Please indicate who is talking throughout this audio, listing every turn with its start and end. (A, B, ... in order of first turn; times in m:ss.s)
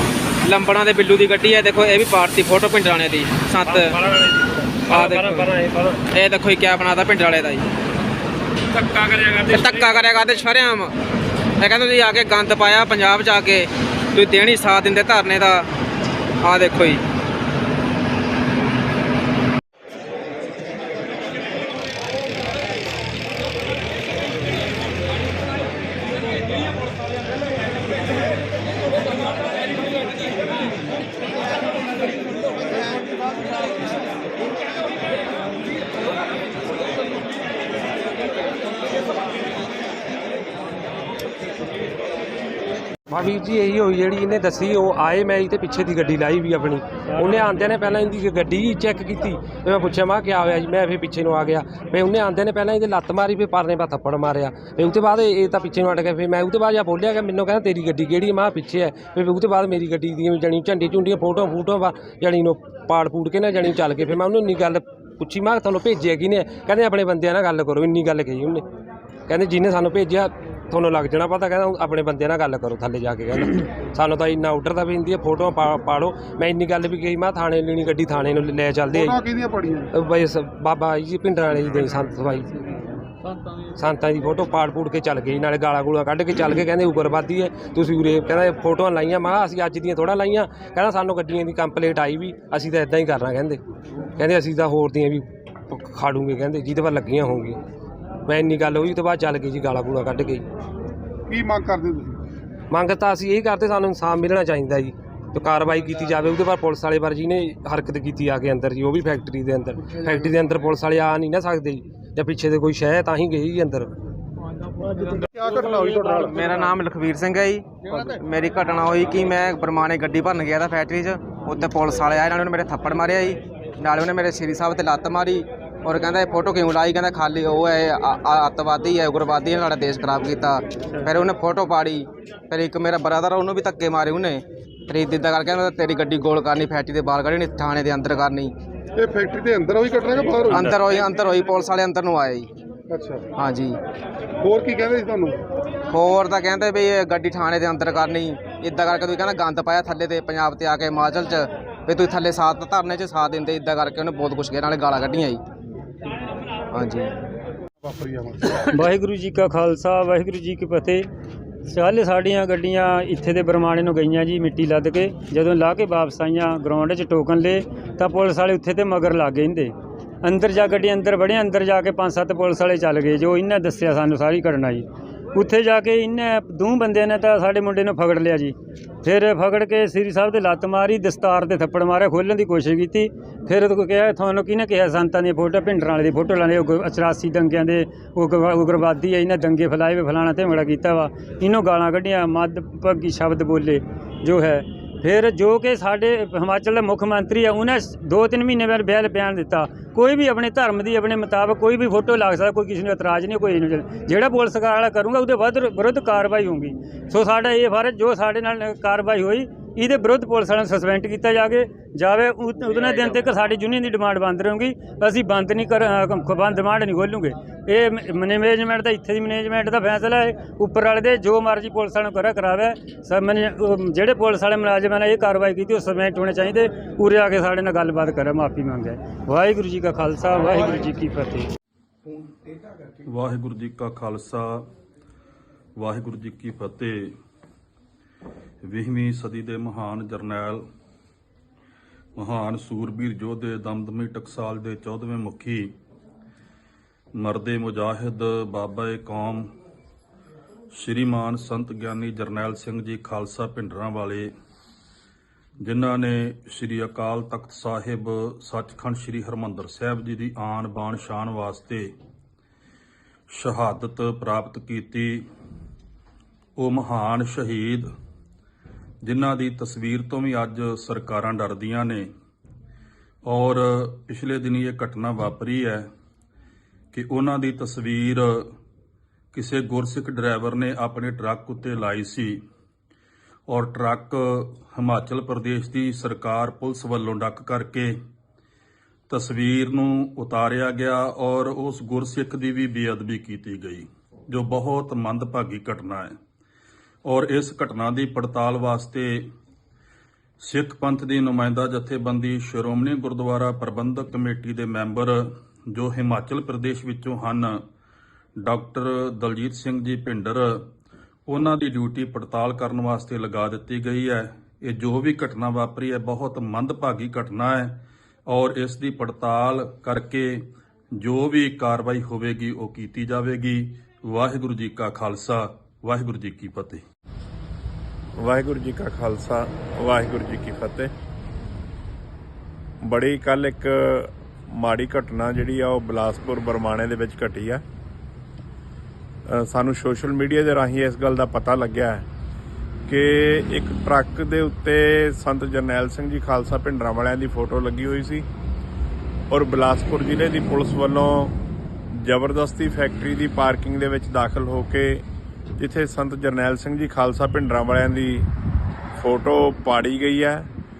0:00.4-0:03.9 A
0:03.6-0:06.0 B
0:04.9-0:05.5 A
0:06.1-0:07.6 A
0:08.7-0:09.8 B
0:09.5-0:10.9 A
0:11.6-0:15.6 A
0:16.4-0:17.0 A
0:43.1-1:08.6 B
1:09.3-1:19.4 B
1:18.9-1:19.8 C
1:19.9-1:22.7 B
1:23.8-1:33.6 B
1:34.2-1:37.6 B
1:38.2-1:40.4 B
1:41.3-1:42.2 C
1:42.7-1:53.9 B
1:54.9-1:56.6 C
1:56.0-2:18.5 A
2:19.0-2:21.2 C
2:20.4-2:22.5 A
2:22.9-2:23.2 C
2:23.4-2:23.7 A
2:24.4-2:25.4 C
2:25.9-2:35.4 A
2:36.7-2:37.1 A
2:37.8-2:38.3 C
2:38.5-2:41.0 D
2:41.6-3:51.5 D
3:53.0-3:54.6 E
3:55.8-3:57.1 E
3:58.6-4:00.6 E
4:02.2-4:05.7 E
4:07.2-4:09.5 E
4:10.7-4:14.3 E
4:15.6-4:21.9 E
4:23.3-4:25.2 E
4:26.6-4:27.9 E
4:29.0-4:32.1 E
4:33.2-4:35.8 E
4:36.9-4:38.4 E
4:39.3-4:42.4 E
4:43.5-4:47.9 E
4:49.1-4:56.1 E
4:57.0-4:59.3 E
5:00.4-5:07.6 E
5:08.4-5:10.6 E
5:11.3-5:20.5 E
5:21.0-5:26.8 E
5:28.2-5:30.9 F
5:32.8-5:37.6 F
5:39.3-5:42.0 F
5:42.9-5:48.2 F
5:49.3-5:51.4 F
5:51.9-5:55.0 F
5:55.6-5:58.3 F
5:59.0-6:00.5 F